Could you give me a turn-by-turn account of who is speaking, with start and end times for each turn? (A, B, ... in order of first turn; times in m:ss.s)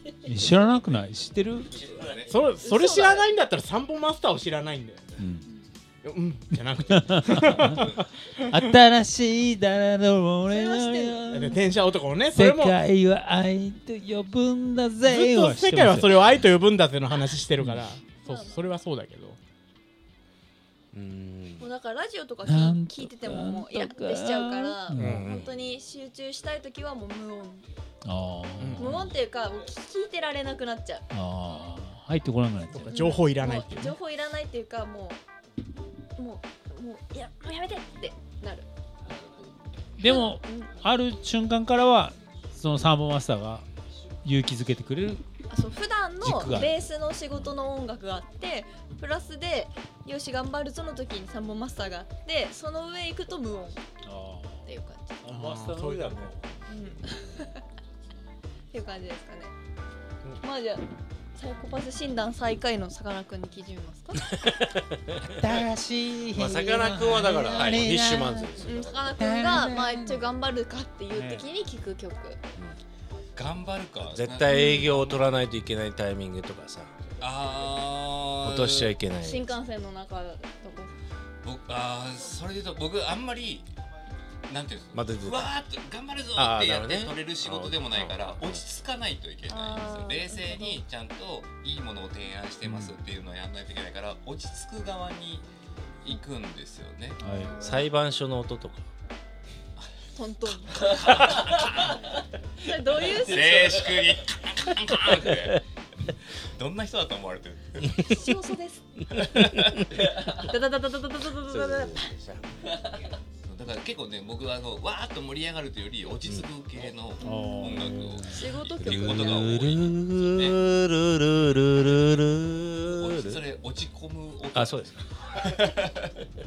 0:00.2-0:01.9 A
0:01.7-0:02.4 B
0:02.3-0:05.1 C
0:02.6-0:03.3 D
0:05.2-0:05.5 A
0:06.0-0:08.0 C
0:06.9-0:11.6 A
0:10.5-0:11.2 D
0:11.3-0:12.8 C
0:12.3-0:16.1 A
0:15.1-0:19.4 C
0:18.2-0:18.8 D
0:20.9-0:21.7 E
0:21.6-0:27.6 D
0:22.4-0:25.3 A
0:24.9-0:25.5 E
0:28.0-0:29.1 A
0:28.6-0:28.9 C
0:28.8-0:31.0 D
0:31.1-0:32.9 A
0:32.7-0:33.9 C
0:32.8-0:35.2 D
0:36.2-0:38.7 D
0:40.0-0:43.6 A
0:40.0-0:40.7 D
0:44.2-0:45.2 A
0:45.5-0:53.8 D
0:46.2-0:47.5 A
0:54.0-0:54.7 A
0:54.6-0:55.2 D
0:55.2-0:56.5 A
0:55.3-0:56.2 C
0:56.7-0:57.6 D
0:58.7-0:59.5 D
1:00.4-1:04.2 D
1:04.3-1:05.2 E
1:05.2-1:08.7 A
1:06.3-1:09.1 E
1:08.6-1:12.4 D
1:09.2-1:10.2 A
1:11.1-1:11.4 A
1:13.3-1:15.4 B
1:14.0-1:16.9 E
1:14.5-1:15.0 D
1:17.2-1:18.9 B
1:18.4-1:19.5 E
1:19.2-1:20.9 D
1:21.4-1:23.7 B
1:24.5-1:35.4 B
1:24.9-1:25.5 E
1:26.3-1:28.6 E
1:29.5-1:30.8 D
1:32.6-1:32.9 A
1:36.0-1:37.2 B
1:37.2-1:37.9 D
1:37.2-1:37.6 A
1:37.6-1:38.9 E
1:40.1-1:41.9 D
1:40.8-1:41.7 B
1:42.6-1:43.9 D
1:43.1-1:45.6 B
1:46.5-1:48.3 B
1:48.0-1:48.9 D
1:49.2-1:49.5 E
1:49.2-1:49.9 B
1:50.3-1:52.1 D
1:51.4-1:52.4 E
1:53.4-2:00.6 B
1:57.2-1:59.6 D
1:57.2-1:58.5 A
1:58.8-2:03.4 E
2:02.9-2:06.1 B
2:04.5-2:05.1 E